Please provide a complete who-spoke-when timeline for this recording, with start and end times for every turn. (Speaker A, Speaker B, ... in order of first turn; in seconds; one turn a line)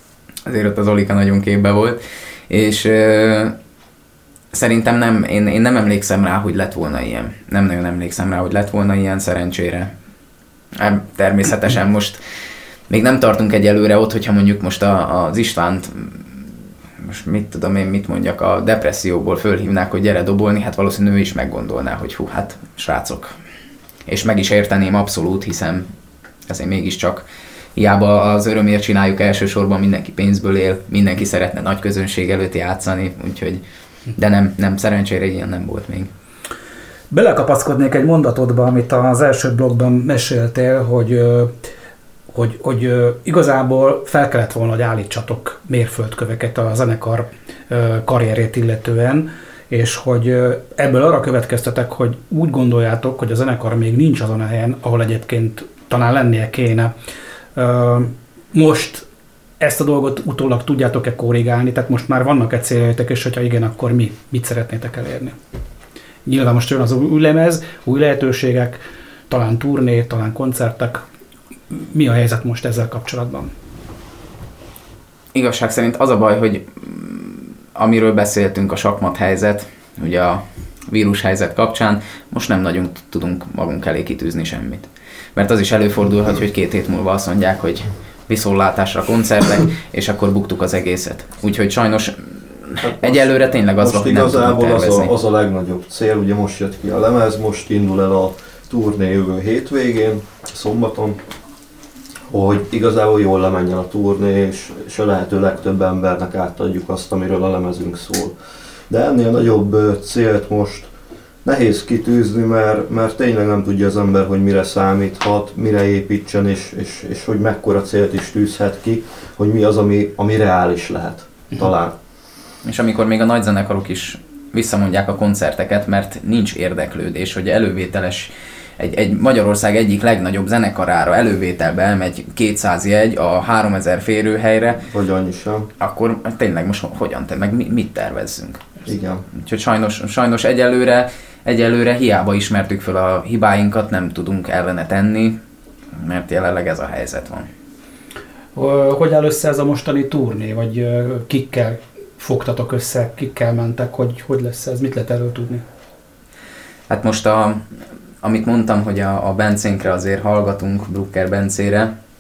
Speaker A: 0.5-3.5
Speaker A: 4.5-9.9
Speaker A: 10.8-12.2
Speaker A: 12.9-16.5
Speaker A: 17.0-23.3
Speaker A: 24.1-25.9
Speaker A: 26.5-27.2
Speaker A: 27.8-33.6
Speaker A: 34.1-36.1
Speaker B: 37.1-41.5
Speaker B: 42.3-56.9
Speaker B: 57.6-59.0
Speaker B: 59.6-65.3
Speaker B: 66.3-71.0
Speaker B: 71.7-73.5
Speaker A: 75.3-95.1
Speaker C: 92.8-93.3
Speaker C: 93.8-101.2
Speaker C: 102.3-108.3
Speaker C: 108.9-110.9
Speaker C: 111.5-122.0
Speaker A: 122.6-134.8
Speaker C: 134.8-135.7
Speaker A: 135.8-138.7
Speaker C: 138.9-139.2
Speaker A: 139.3-145.4
Speaker A: 145.9-147.5
Speaker B: 148.6-155.6
Speaker A: 156.9-157.6
Speaker A: 158.2-161.9